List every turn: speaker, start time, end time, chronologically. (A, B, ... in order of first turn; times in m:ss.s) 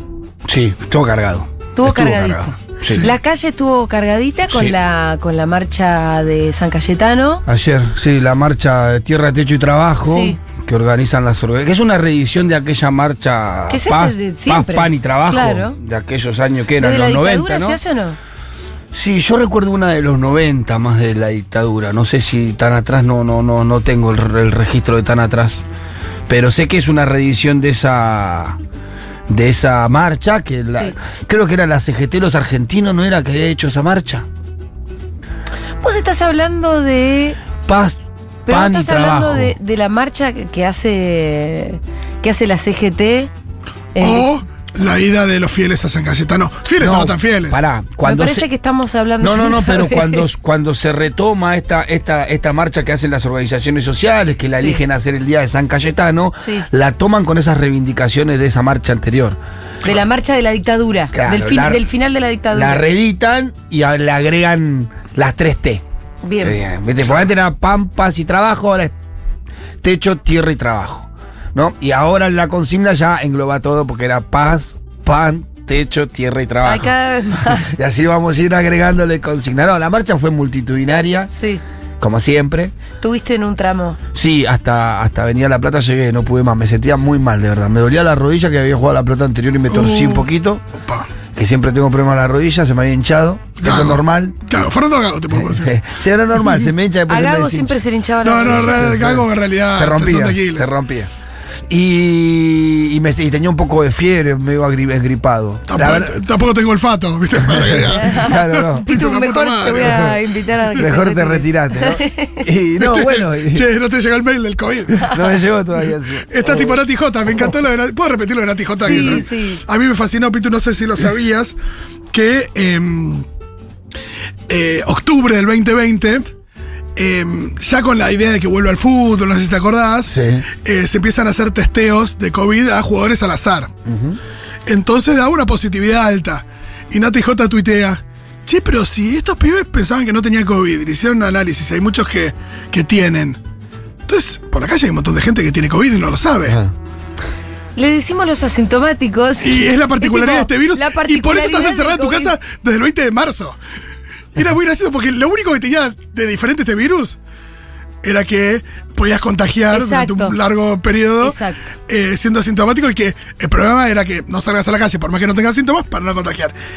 0:00.4-0:03.1 A
0:01.8-0:07.4 B
0:04.5-0:04.8 A
0:07.5-0:17.8 A
0:10.0-0:10.4 B
0:13.7-0:15.8 B
0:16.8-0:18.2 B
0:18.9-0:25.7 A
0:26.3-0:28.6 A
0:29.3-0:34.3 A
0:35.8-0:37.4 B
0:37.6-0:39.6 A
0:38.5-0:43.3 B
0:44.0-0:44.3 B
0:44.0-0:47.6 C
0:46.8-0:48.5 A
0:48.0-0:50.2 B
0:49.2-0:59.4 A
0:54.5-0:54.8 B
0:56.4-0:56.7 B
0:59.8-1:02.8 B
1:01.1-1:01.8 A
1:02.5-1:05.8 A
1:06.2-1:06.6 B
1:06.4-1:09.0 A
1:09.8-1:21.3 A
1:16.6-1:17.7 B
1:21.3-1:21.6 B
1:22.0-1:22.7 A
1:23.0-1:24.0 B
1:24.1-1:30.6 A
1:29.7-1:30.3 C
1:30.8-1:31.1 C
1:31.4-1:34.4 A
1:33.6-1:35.7 C
1:35.3-1:37.8 A
1:37.1-1:38.9 B
1:38.2-1:40.7 C
1:38.4-1:41.1 A
1:41.7-1:46.2 A
1:45.7-1:50.2 C
1:47.4-1:48.8 A
1:48.0-1:52.4 B
1:49.9-1:50.1 A
1:50.8-1:53.7 A
1:52.8-1:55.3 C
1:55.0-1:56.8 A
1:56.2-2:01.6 C
1:58.8-1:59.6 B
1:58.9-1:59.2 A
2:02.1-2:03.2 C
2:04.5-2:06.3 C
2:07.0-2:13.7 C
2:10.1-2:10.5 A
2:13.9-2:14.2 A
2:14.7-2:23.4 C
2:24.1-2:26.6 C
2:26.5-2:26.7 A
2:27.8-2:32.4 B
2:29.4-2:33.6 C
2:34.4-2:37.2 C
2:38.0-2:41.4 C
2:39.7-2:40.4 B
2:41.2-2:41.7 B
2:41.9-2:46.5 C